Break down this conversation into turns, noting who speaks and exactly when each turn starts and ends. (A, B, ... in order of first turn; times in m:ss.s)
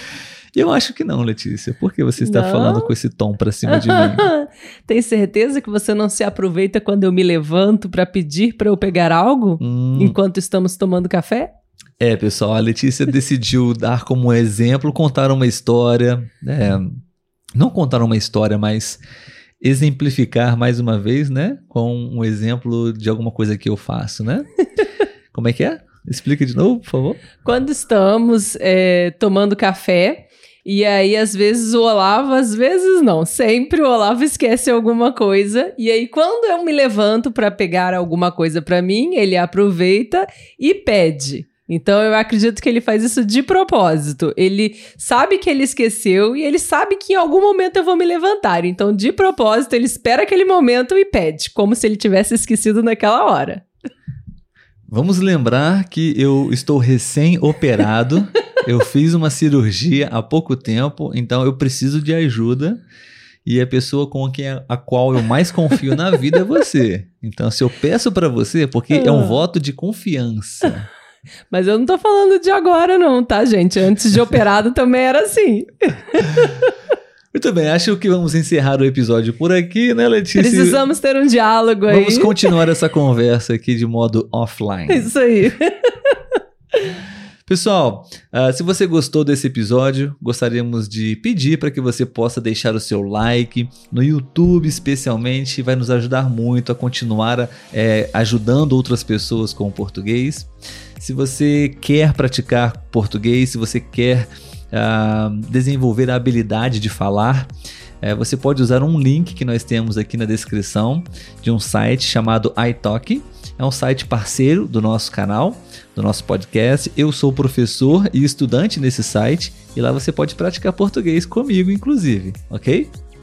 0:00.6-0:04.3 A
0:02.2-0:02.9 B
0:03.7-0:11.5 B
0:09.6-0:10.2 A
0:12.0-0:17.0 A
0:17.6-0:19.0 A
0:19.6-0:24.5 A
0:25.3-0:27.3 A
0:27.4-0:53.7 B
0:54.9-1:02.8 A
1:03.4-1:10.9 A
1:08.9-1:09.4 B
1:11.5-1:16.5 B
1:17.3-1:20.8 A
1:20.4-1:22.5 B
1:21.9-1:25.1 A
1:24.9-1:26.1 B
1:27.5-1:47.5 A
1:48.0-2:02.9 A